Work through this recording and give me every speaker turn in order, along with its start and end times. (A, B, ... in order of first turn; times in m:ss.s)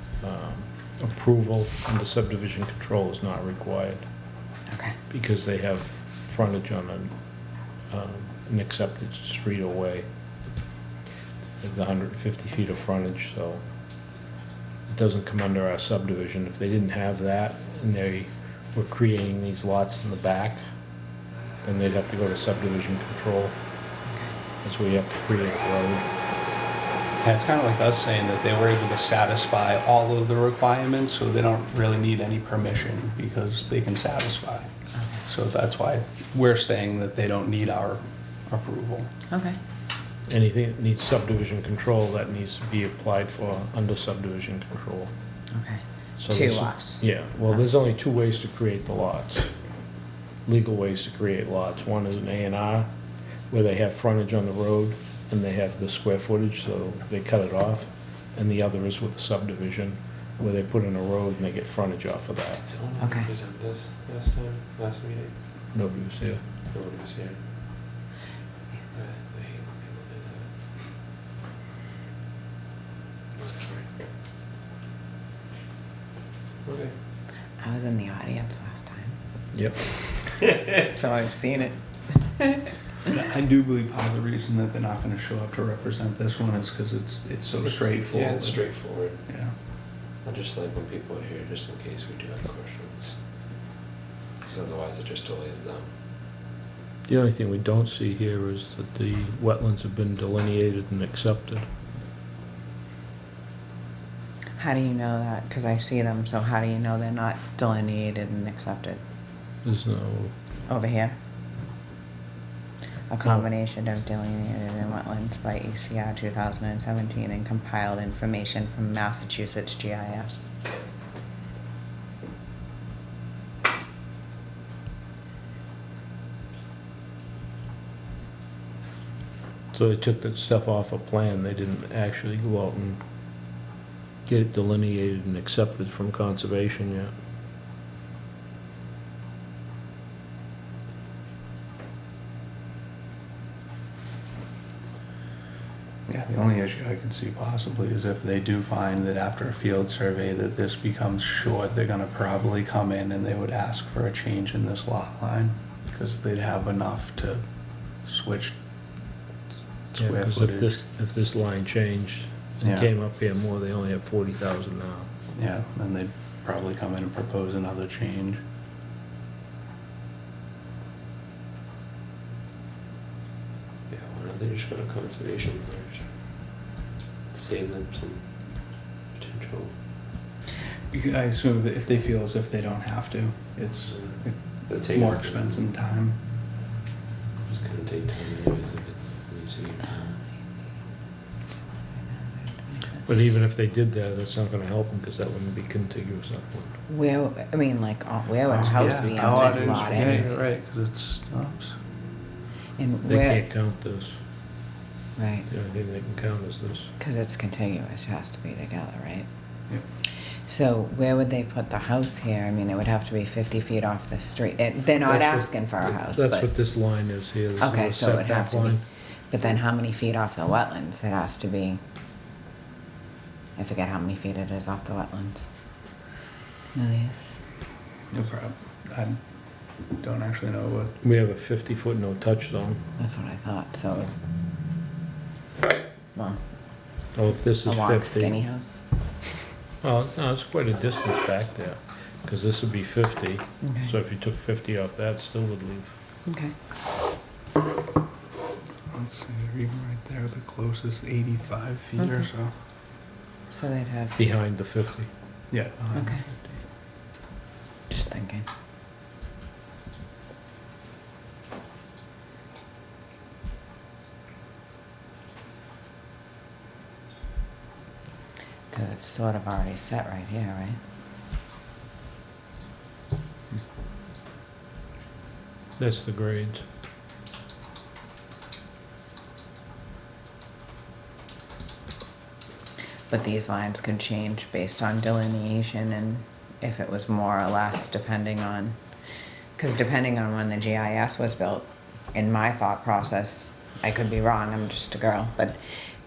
0:00.2-0:04.1 A
0:04.7-0:05.0 B
0:05.1-0:10.1 A
0:11.6-0:13.6 A
0:14.9-0:20.6 A
0:21.6-0:23.6 A
0:24.1-0:24.3 B
0:24.6-0:26.1 A
0:27.2-0:34.7 C
0:35.0-0:35.2 B
0:35.2-0:39.1 C
0:39.3-0:39.6 B
0:40.3-0:45.1 A
0:45.5-0:47.6 B
0:46.2-0:49.5 A
0:50.4-0:52.9 A
0:53.5-1:02.6 A
1:02.6-1:05.6 D
1:03.0-1:03.3 B
1:05.7-1:06.4 A
1:06.6-1:07.5 D
1:08.9-1:10.5 D
1:13.3-1:14.0 D
1:16.6-1:17.0 D
1:17.6-1:19.2 B
1:19.5-1:19.9 A
1:20.7-1:22.7 B
1:23.0-1:29.6 C
1:27.6-1:33.2 D
1:34.4-1:35.9 D
1:37.1-1:41.7 A
1:44.6-1:49.0 B
1:49.6-1:50.3 A
1:50.7-1:51.2 B
1:53.1-2:00.5 B
2:09.7-2:13.0 A
2:14.2-2:17.1 A
2:26.1-2:37.4 C
2:38.0-2:38.6 C
2:39.9-2:40.8 C
2:39.9-2:45.1 A
2:42.6-2:42.9 C
2:45.4-2:48.4 C
2:53.9-2:56.2 D
2:57.3-2:59.8 D
3:00.9-3:06.2 C
3:03.9-3:05.6 D
3:07.5-3:10.2 D
3:12.2-3:13.0 B
3:13.0-3:16.8 A
3:16.9-3:20.5 B
3:18.5-3:21.8 C
3:18.7-3:20.3 A
3:22.8-3:23.4 B
3:23.1-3:24.2 A
3:25.2-3:25.5 B
3:25.5-3:26.9 A
3:27.0-3:29.3 B
3:30.5-3:36.5 B
3:35.0-3:38.8 A
3:37.6-3:41.8 B
3:43.6-3:45.5 B
3:46.7-3:47.4 B
3:48.1-3:49.2 C
3:49.8-3:51.0 C
3:51.0-3:52.8 A
3:53.0-3:54.1 B
3:56.1-3:56.4 B
3:57.1-3:58.5 A
3:57.6-3:58.8 B
3:59.8-4:06.0 A
4:03.6-4:03.9 B
4:06.2-4:06.5 B
4:08.9-4:12.5 C
4:12.0-4:12.2 B
4:13.5-4:14.2 B
4:14.2-4:15.1 A
4:15.5-4:16.6 C
4:15.9-4:16.2 B
4:17.9-4:18.5 B
4:28.7-4:30.8 B
4:35.8-4:36.6 A
4:43.1-4:48.8 B
4:49.6-4:55.6 B